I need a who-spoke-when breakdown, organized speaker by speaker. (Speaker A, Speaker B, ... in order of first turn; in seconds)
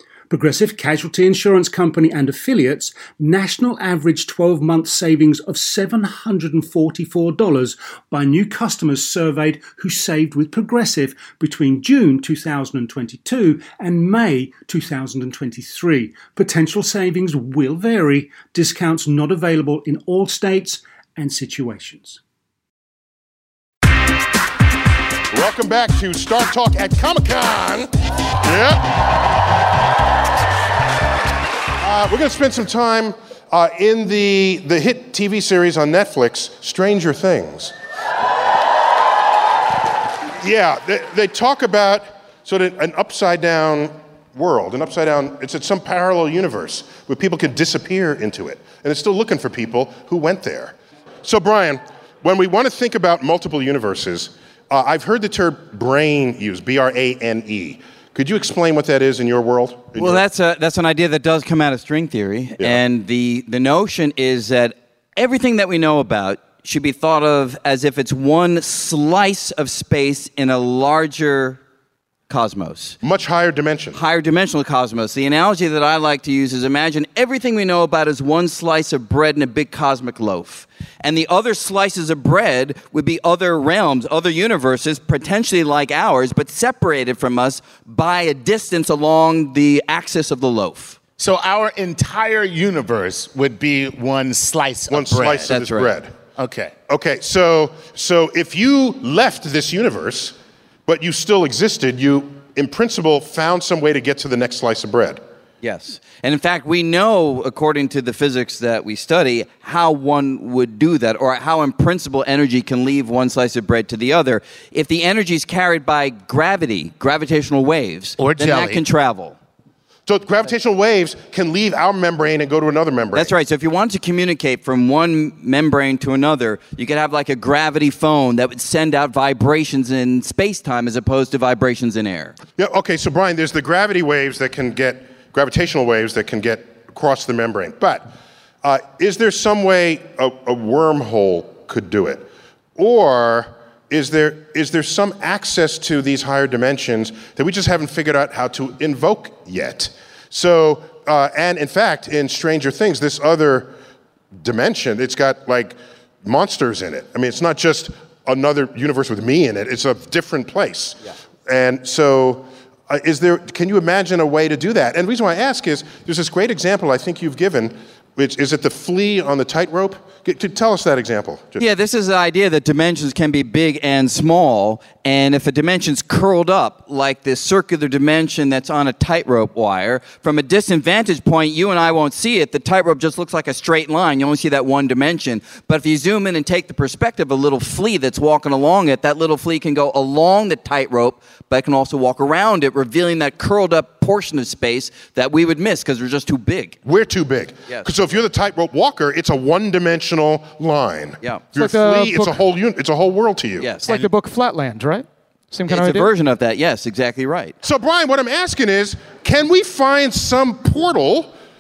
Speaker A: 0.3-22.2
Speaker B: 25.3-27.9, 28.4-28.9, 31.8-37.7, 40.4-60.2, 73.0-74.0, 94.9-96.1, 96.9-100.3, 100.9-105.2, 120.1-123.3, 132.6-153.7, 154.3-171.7, 196.8-203.7, 207.6-211.3
Speaker C: 60.0-71.6, 72.3-73.0, 73.9-91.0, 95.5-96.0, 105.6-119.4, 123.1-132.3, 171.6-196.8, 203.6-203.9, 205.7-207.6
Speaker D: 91.2-95.6, 96.4-96.7, 118.2-118.8
Speaker E: 201.6-202.4, 203.8-206.1